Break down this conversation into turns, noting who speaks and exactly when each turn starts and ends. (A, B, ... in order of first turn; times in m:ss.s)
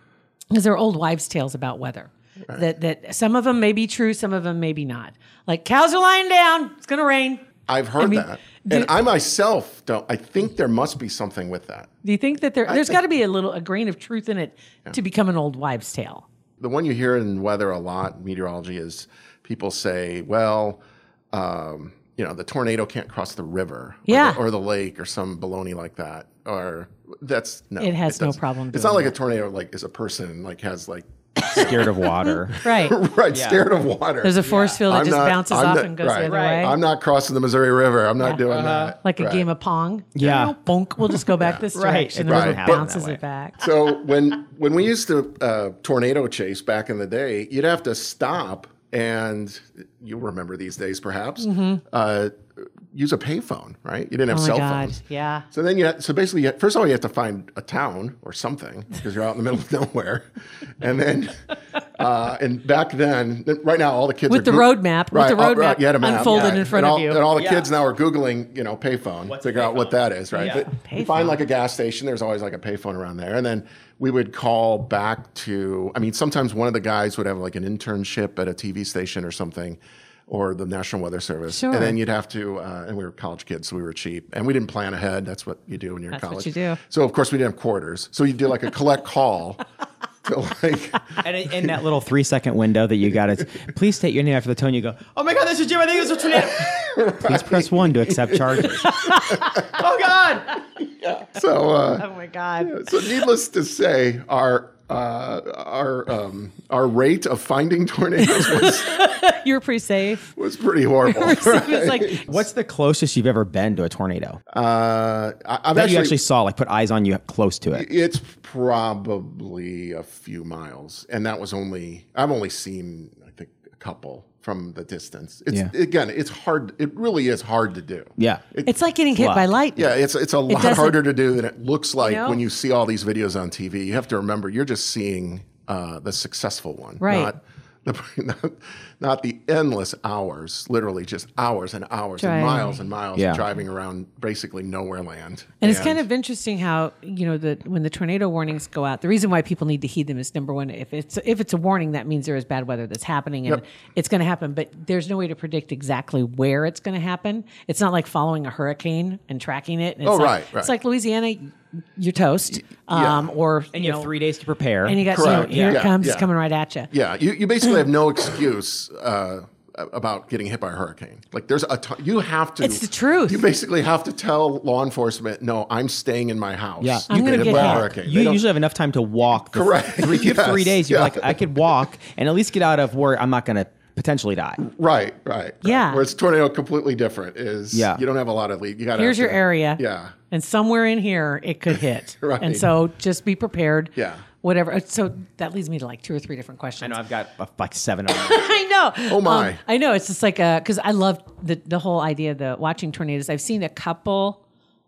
0:00.5-0:07.4 A
0:07.7-0:11.9 B
0:08.0-0:08.9 A
0:12.0-0:16.2 A
0:12.7-0:13.0 B
0:16.6-0:20.8 B
0:21.3-0:32.0 B
0:24.0-0:24.4 A
0:27.8-0:29.1 A
0:31.5-0:32.6 C
0:32.5-0:33.0 A
0:32.5-0:39.5 B
0:33.3-0:33.6 C
0:34.2-0:36.8 A
0:34.4-0:34.8 C
0:36.2-0:36.7 C
0:38.5-0:38.9 C
0:39.0-0:43.6 A
0:40.2-0:40.6 C
0:41.1-0:41.6 B
0:41.7-0:43.2 C
0:42.3-0:42.8 B
0:43.6-0:55.0 B
0:51.4-0:51.8 A
0:54.3-0:55.4 A
0:55.5-1:00.3 B
1:00.8-1:29.6 B
1:04.3-1:07.2 A
1:06.2-1:06.6 C
1:07.4-1:07.7 C
1:09.2-1:10.6 C
1:10.3-1:11.4 A
1:21.5-1:22.0 A
1:26.1-1:26.8 A
1:30.2-1:31.7 B
1:31.2-1:40.6 C
1:36.3-1:39.8 B
1:38.8-1:39.2 A
1:40.8-1:42.1 B
1:42.0-1:42.8 A
1:42.6-1:49.0 B
1:48.2-1:50.3 A
1:50.4-1:52.4 B
1:51.0-1:52.3 A
1:52.2-1:54.4 C
1:54.5-1:56.2 B
1:55.7-1:57.8 C
1:57.7-2:08.7 B
2:08.2-2:08.4 C
2:08.6-2:09.9 A
2:09.2-2:09.5 C
2:09.8-2:26.0 B
2:10.5-2:11.0 A
2:12.0-2:12.4 A
2:17.0-2:17.3 A
2:22.2-2:22.8 A
2:23.2-2:23.4 C
2:25.6-2:44.1 A
2:40.0-2:40.7 B
2:42.9-2:43.3 B
2:43.7-2:45.8 C
2:44.8-2:46.9 A
2:45.1-2:46.3 B
2:46.9-2:58.4 B
2:52.6-2:53.4 A
2:56.8-3:04.6 C
2:57.1-2:57.9 A
2:59.5-3:01.4 B
3:04.6-3:10.2 B
3:05.6-3:06.0 A
3:07.7-3:08.0 C
3:08.9-3:17.0 A
3:12.2-3:12.7 B
3:14.0-3:14.2 B
3:16.8-3:18.5 C
3:18.1-3:24.4 A
3:19.1-3:19.6 B